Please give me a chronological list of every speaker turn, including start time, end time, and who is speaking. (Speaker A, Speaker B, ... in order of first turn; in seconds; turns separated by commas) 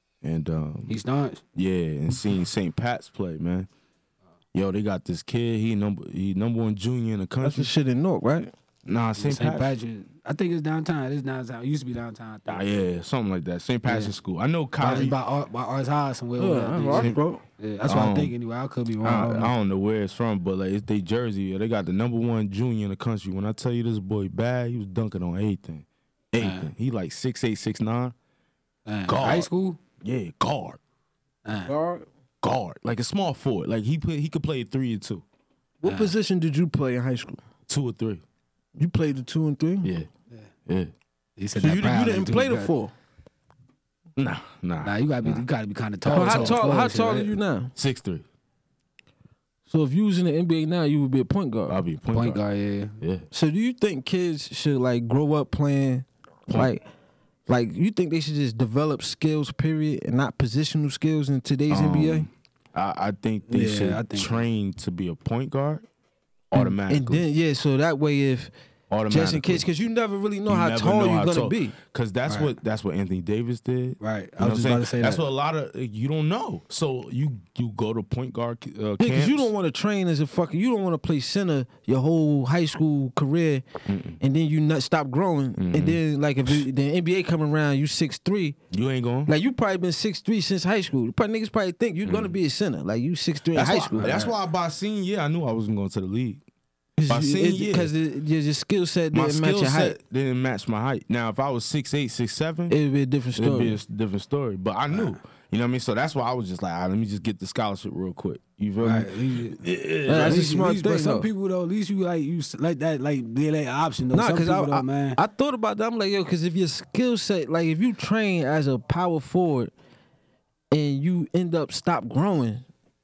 Speaker A: 0.2-1.0, Speaker B: 0.9-1.4, Speaker A: 1.5-3.7, Speaker A: 4.5-7.7, Speaker C: 7.4-8.5, Speaker A: 8.8-9.7, Speaker B: 9.2-12.6, Speaker A: 12.5-15.2, Speaker B: 13.8-14.1, Speaker B: 14.8-19.5, Speaker C: 16.4-17.4, Speaker A: 16.9-17.2, Speaker A: 17.9-18.3, Speaker A: 19.0-28.1, Speaker B: 26.4-26.7, Speaker B: 28.9-29.8, Speaker A: 29.1-29.5, Speaker A: 30.0-30.8, Speaker B: 31.4-31.7, Speaker C: 31.6-32.0, Speaker A: 32.4-35.2, Speaker C: 35.8-37.4, Speaker B: 35.8-36.1, Speaker A: 37.7-38.2, Speaker C: 38.8-39.9, Speaker A: 39.8-40.1, Speaker A: 40.7-40.9, Speaker B: 41.4-42.7, Speaker C: 41.5-42.9, Speaker A: 44.2-45.4, Speaker B: 44.8-47.3, Speaker A: 46.0-46.6, Speaker C: 46.1-47.7, Speaker A: 47.8-48.2, Speaker C: 49.7-51.8, Speaker A: 51.7-52.4, Speaker B: 52.1-53.0, Speaker A: 53.0-53.3, Speaker C: 53.3-56.8, Speaker A: 56.5-56.7, Speaker C: 57.5-62.3, Speaker A: 61.7-65.8, Speaker B: 63.5-64.4, Speaker A: 66.5-67.2, Speaker C: 66.5-68.5, Speaker A: 68.9-69.6, Speaker C: 69.1-71.8, Speaker A: 70.5-79.5, Speaker B: 72.3-72.5, Speaker B: 74.0-75.2, Speaker C: 79.0-83.6, Speaker A: 83.9-84.2, Speaker C: 84.2-88.6, Speaker A: 85.5-86.0, Speaker A: 88.7-89.3, Speaker C: 89.3-94.2, Speaker A: 92.0-92.3, Speaker A: 93.5-96.4, Speaker B: 93.9-94.3, Speaker C: 97.0-100.0, Speaker A: 97.1-97.9, Speaker A: 99.1-102.8, Speaker C: 102.7-103.8, Speaker A: 103.3-110.5, Speaker B: 104.9-105.2, Speaker B: 108.8-115.2, Speaker C: 110.0-111.3, Speaker C: 114.1-119.7, Speaker C: 120.7-122.6